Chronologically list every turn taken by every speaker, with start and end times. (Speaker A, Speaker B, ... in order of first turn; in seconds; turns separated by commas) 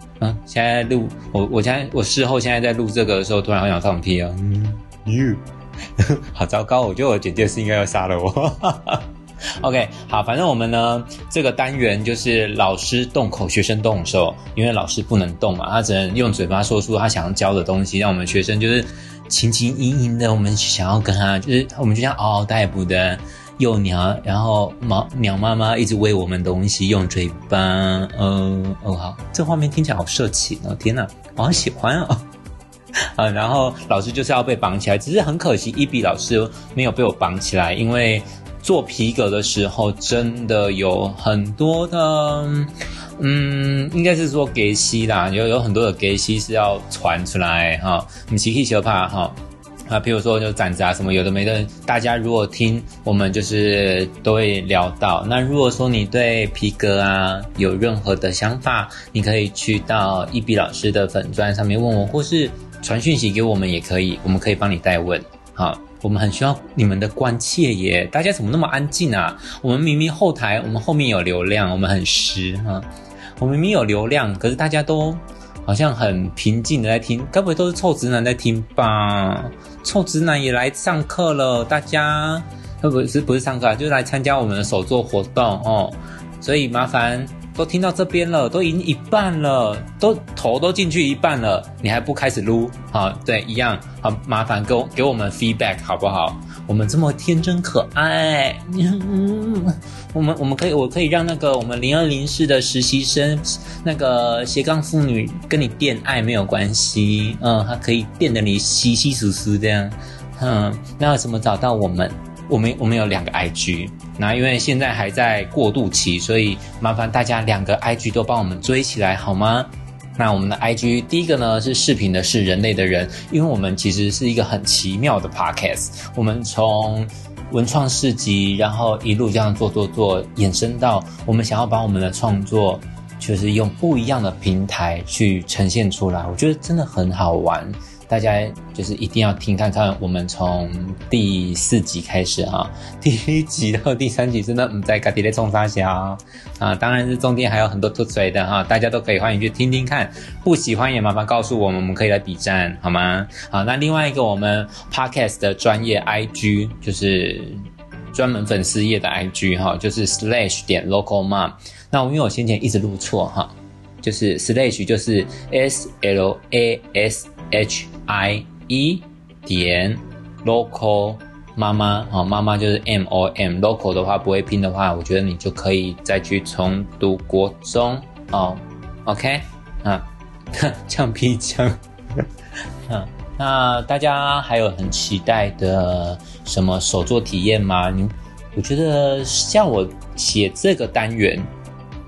Speaker A: 0.2-5.4, Speaker A: 6.0-32.2, Speaker A: 33.1-72.9, Speaker A: 73.4-182.2, Speaker A: 182.9-191.5